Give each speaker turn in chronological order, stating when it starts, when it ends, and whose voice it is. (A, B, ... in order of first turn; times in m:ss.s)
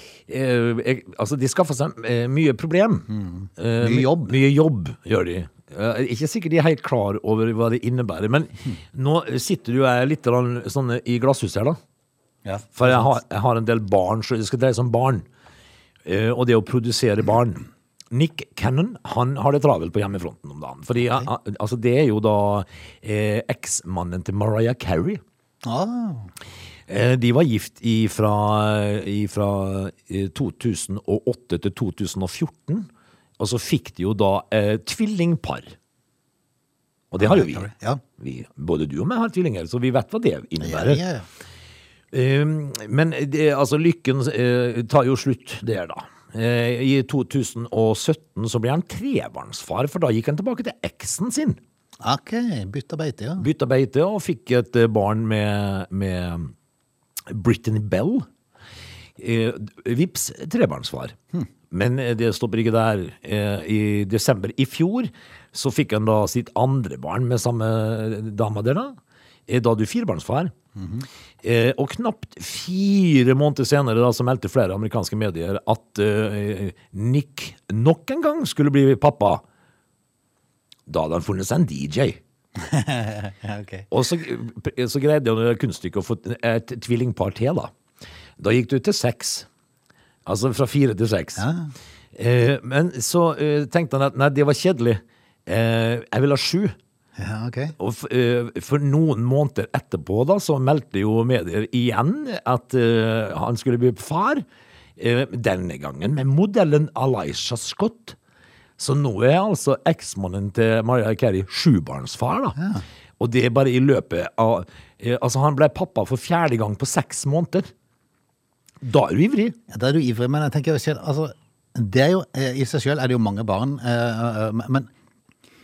0:00.3-0:11.8 A
0:03.1-0:04.4 B
0:12.4-0:13.1 B
0:12.8-0:15.3 A
0:16.0-0:25.2 A
0:25.6-0:26.3 B
0:26.9-0:35.7 A
0:37.1-0:41.0 A
0:37.2-0:38.0 B
0:40.6-0:41.3 B
0:42.1-0:51.6 A
0:52.0-0:53.4 B
0:53.4-0:56.5 A
0:57.3-0:58.3 A
0:59.2-1:01.2 A
1:01.7-1:10.5 A
1:10.8-1:11.1 B
1:11.4-1:19.4 A
1:20.9-1:22.2 A
1:22.6-1:23.9 B
1:23.9-1:27.7 A
1:28.4-1:29.5 A
1:30.3-1:31.4 A
1:31.4-1:31.7 B
1:32.1-1:36.8 A
1:37.2-1:37.8 B
1:37.8-1:44.4 A
1:45.0-1:48.2 A
1:48.8-1:52.6 A
1:52.6-1:52.8 B
1:53.2-1:57.7 A
1:58.8-1:59.6 A
1:59.7-2:04.9 B